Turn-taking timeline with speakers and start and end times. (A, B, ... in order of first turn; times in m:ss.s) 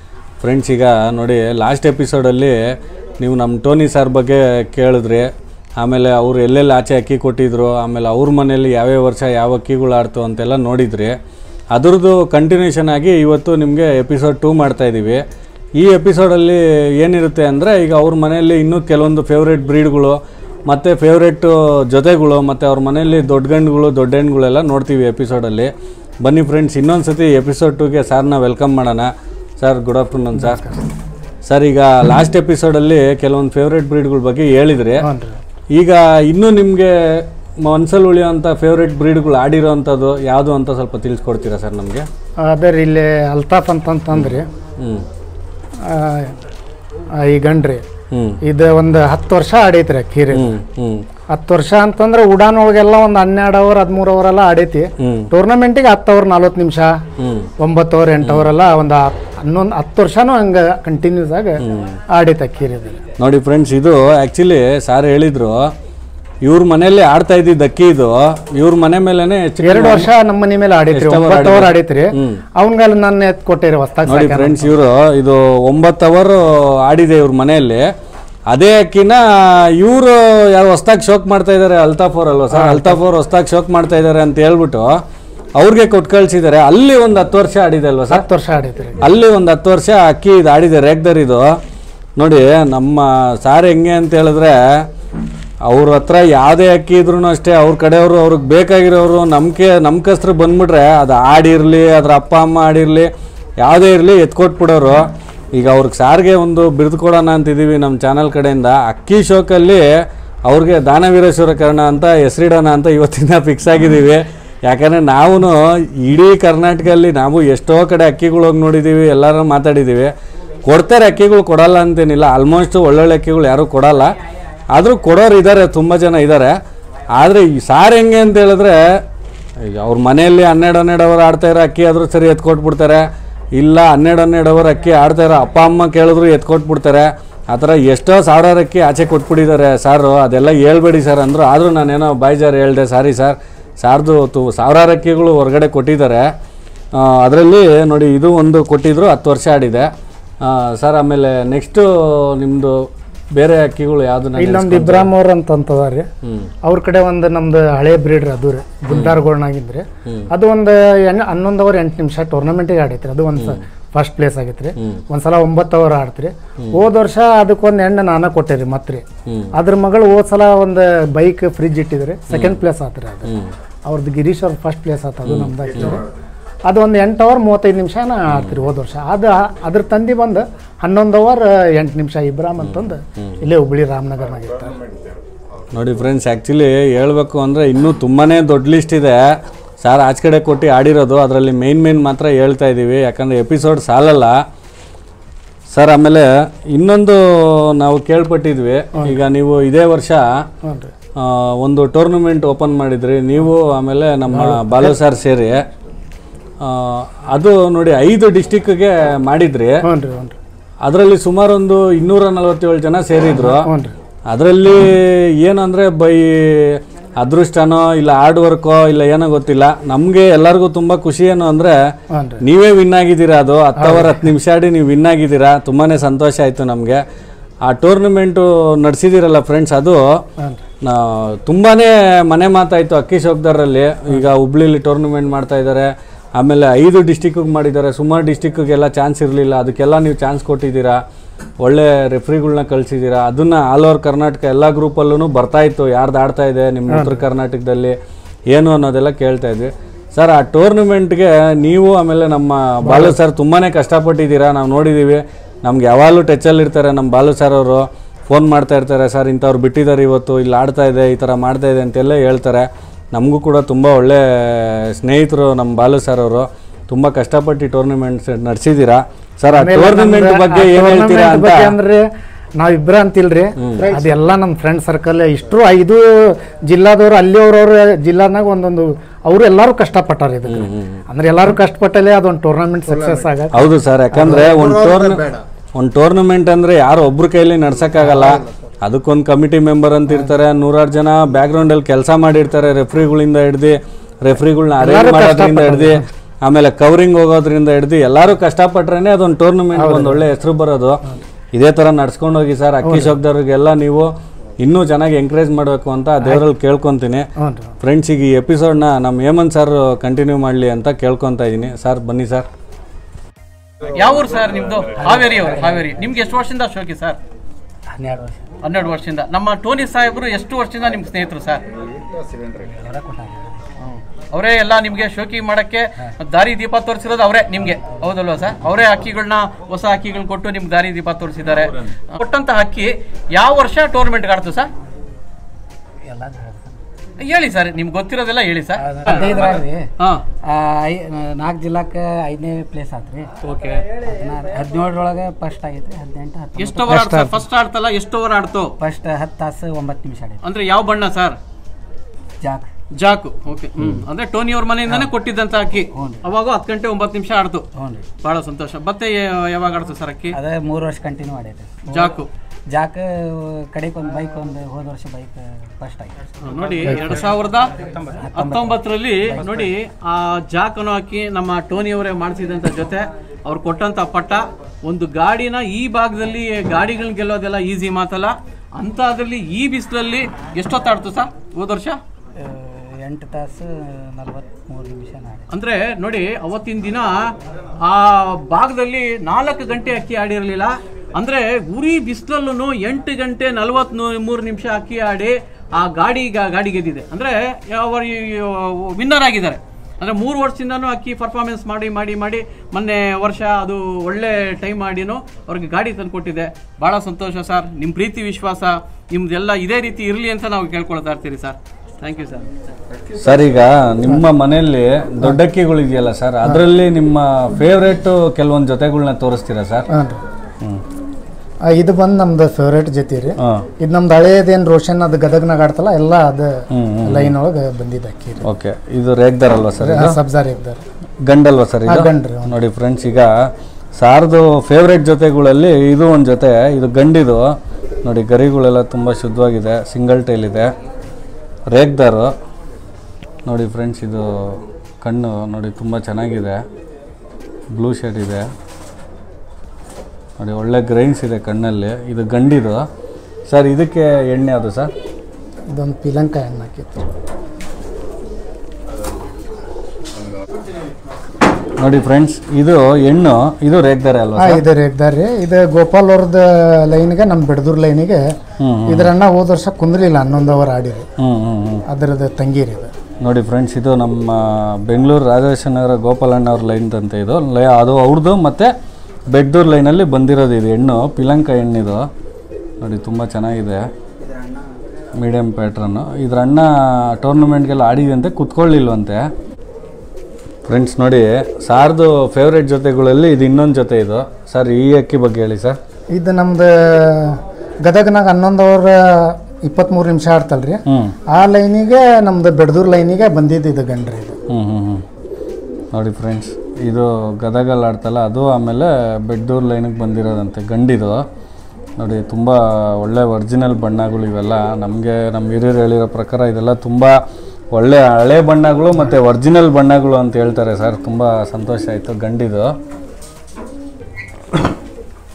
0:00.4-0:11.2 A
0:11.7-0:15.2 A
0:15.8-0:30.7 A
0:31.4-0:35.1 A
0:35.0-0:35.4 B
0:35.7-0:42.1 A
0:42.4-0:44.5 B
0:44.1-0:45.1 A
0:45.8-0:46.4 B
0:47.2-0:47.8 B
0:48.1-0:48.4 A
0:48.4-0:50.6 B
0:50.3-0:51.0 A
0:51.3-0:57.0 B
0:55.0-0:55.3 A
0:57.2-0:57.5 A
0:57.6-1:03.0 B
1:01.6-1:02.0 A
1:03.2-1:05.7 A
1:06.4-1:10.1 A
1:09.6-1:14.7 B
1:10.9-1:12.4 A
1:14.0-1:17.9 A
1:18.5-1:25.0 A
1:22.5-1:23.0 B
1:25.6-1:28.2 A
1:28.1-1:29.0 B
1:29.0-1:31.6 A
1:32.2-1:34.9 A
1:35.6-2:00.1 A
2:00.6-2:04.2 A
2:04.7-2:06.6 A
2:07.1-2:09.0 A
2:09.6-2:26.3 A
2:26.9-2:29.9 A
2:30.4-2:35.1 A
2:34.4-2:36.1 B
2:36.2-2:36.5 A
2:36.6-2:53.3 B
2:38.9-2:39.2 A
2:49.2-2:49.5 A
2:52.3-2:52.6 A
2:53.2-2:53.5 A
2:53.8-2:56.0 B
2:55.2-2:56.0 A
2:56.7-3:04.8 B
3:02.6-3:03.4 A
3:05.7-3:14.4 A
3:15.7-3:20.4 A
3:20.6-3:20.9 B
3:21.2-3:25.6 A
3:24.3-3:24.9 B
3:26.6-3:29.8 A
3:29.8-3:30.4 B
3:30.8-3:33.7 A
3:33.5-3:33.9 B
3:34.3-3:47.0 A
3:42.1-3:42.4 B
3:43.8-3:44.2 B
3:47.6-3:50.2 A
3:50.4-3:50.6 B
3:50.8-4:01.0 A
4:01.6-4:08.0 A
4:06.9-4:07.2 B
4:08.5-4:31.8 A
4:12.8-4:13.2 B
4:29.5-4:32.0 B
4:32.6-4:44.6 B
4:33.6-4:33.9 A
4:40.5-4:41.0 A
4:43.5-5:12.5 A
4:54.8-4:56.1 B
4:59.7-5:00.2 B
5:02.8-5:03.2 B
5:07.4-5:07.8 B
5:13.8-5:17.2 C
5:15.0-5:16.1 D
5:17.9-5:18.4 D
5:18.6-5:21.6 C
5:22.4-5:23.7 D
5:23.8-5:34.7 C
5:36.0-5:36.8 D
5:37.2-5:40.2 C
5:38.8-5:39.9 D
5:40.4-5:43.3 D
5:43.4-5:43.8 C
5:43.9-5:47.1 D
5:46.6-5:48.7 C
5:46.9-5:47.4 B
5:48.8-5:50.4 D
5:50.4-5:51.4 C
5:52.4-5:52.7 D
5:52.9-5:57.7 C
5:55.9-5:56.2 D
5:57.7-5:58.0 D
5:58.2-6:00.4 C
6:00.3-6:06.3 D
6:01.9-6:02.3 C
6:06.4-6:07.7 C
6:06.8-6:07.2 D
6:08.1-6:09.7 D
6:08.3-6:22.0 C
6:22.4-6:25.5 D
6:25.5-6:52.4 C
6:53.1-6:59.9 A
6:59.9-7:00.2 B
7:01.6-7:08.4 B
7:03.4-7:03.6 A
7:06.7-7:07.3 A
7:08.4-7:10.2 A
7:09.8-7:10.8 B
7:11.2-7:20.7 A
7:11.8-7:12.6 B
7:21.7-7:22.3 A
7:23.4-7:26.6 A
7:27.7-7:28.5 A
7:30.4-7:32.8 A
7:33.5-7:34.9 A
7:35.7-7:37.1 B
7:41.8-7:44.6 A
7:44.4-7:48.2 B
7:48.6-7:49.1 A
7:48.8-7:51.1 B
7:51.2-7:51.8 A
7:51.9-7:52.9 B
7:53.2-7:58.7 A
7:59.3-8:02.1 A
8:02.8-8:03.9 A
8:05.2-8:09.2 A
8:10.6-8:15.8 A
8:16.1-8:24.4 B
8:20.9-8:21.2 A
8:24.5-8:25.0 A
8:25.9-8:31.2 A
8:32.0-8:37.2 A
8:37.7-8:42.8 A